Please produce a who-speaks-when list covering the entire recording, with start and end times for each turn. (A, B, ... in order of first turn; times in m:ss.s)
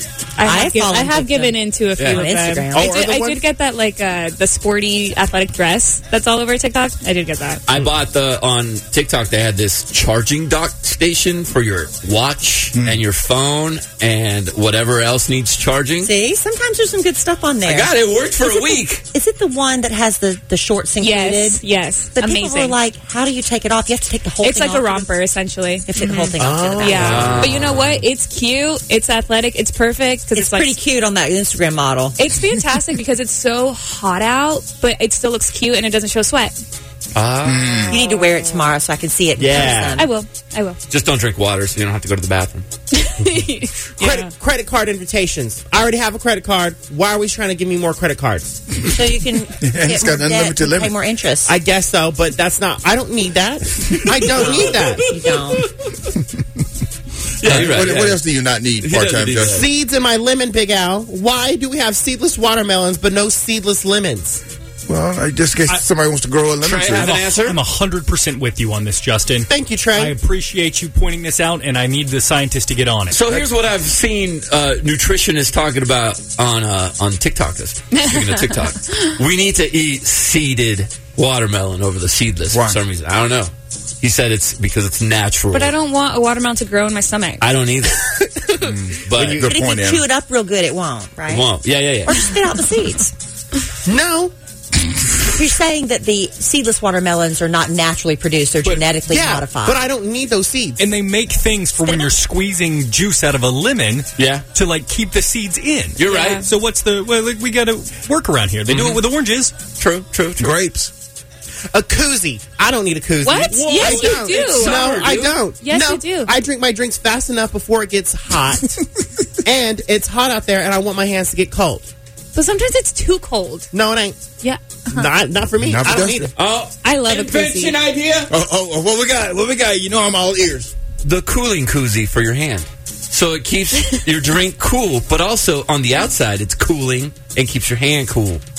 0:00.4-0:07.6 A
0:00.4-0:03.0 B
0:02.0-0:02.2 C
0:02.7-0:03.4 D
0:07.7-0:16.1 C
0:12.7-0:13.0 E
0:16.0-0:17.9 B
0:17.6-0:19.0 C
0:19.1-0:21.6 B
0:21.0-0:22.8 A
0:22.1-0:25.2 B
0:24.4-0:30.8 A
0:25.8-0:27.5 B
0:26.4-0:27.4 D
0:26.9-0:28.0 C
0:30.3-0:32.2 B
0:32.2-0:36.5 A
0:37.1-0:37.8 C
0:37.4-0:38.0 E
0:37.9-0:40.1 B
0:38.0-0:38.6 A
0:39.4-0:40.0 D
0:40.0-0:40.8 A
0:40.9-0:42.6 C
0:42.9-0:44.3 A
0:44.0-0:48.6 D
0:48.8-0:51.5 B
0:49.6-0:51.0 E
0:51.4-0:55.1 D
0:54.3-0:55.7 B
0:54.4-0:55.6 C
0:57.4-0:58.2 C
0:57.4-0:59.7 E
0:58.8-0:59.6 C
0:59.4-1:04.4 D
1:04.9-1:07.1 E
1:06.6-1:07.6 C
1:06.9-1:13.4 F
1:09.5-1:10.2 D
1:13.1-1:25.7 C
1:17.9-1:18.6 A
1:22.5-1:22.8 E
1:25.5-1:27.4 A
1:27.4-1:28.0 C
1:28.2-1:28.5 D
1:28.6-1:30.1 E
1:29.0-1:29.5 C
1:29.4-1:31.5 B
1:31.3-1:32.2 C
1:32.0-1:33.1 B
1:33.8-1:34.3 D
1:35.3-1:39.8 B
1:39.0-1:40.8 D
1:40.8-1:49.6 F
1:44.2-1:44.4 C
1:46.0-1:46.4 C
1:46.0-1:46.4 A
1:48.7-1:49.0 C
1:49.8-1:50.5 C
1:50.4-1:50.9 E
1:51.7-1:58.8 D
1:53.2-1:56.3 A
1:53.5-1:54.2 F
1:53.8-1:55.3 C
1:59.4-2:01.9 D
2:02.3-2:03.7 A
2:03.7-2:04.2 D
2:04.4-2:05.1 A
2:04.9-2:06.3 D
2:05.6-2:06.3 E
2:06.4-2:08.3 C
2:06.8-2:07.8 A
2:08.3-2:10.7 E
2:11.0-2:18.4 C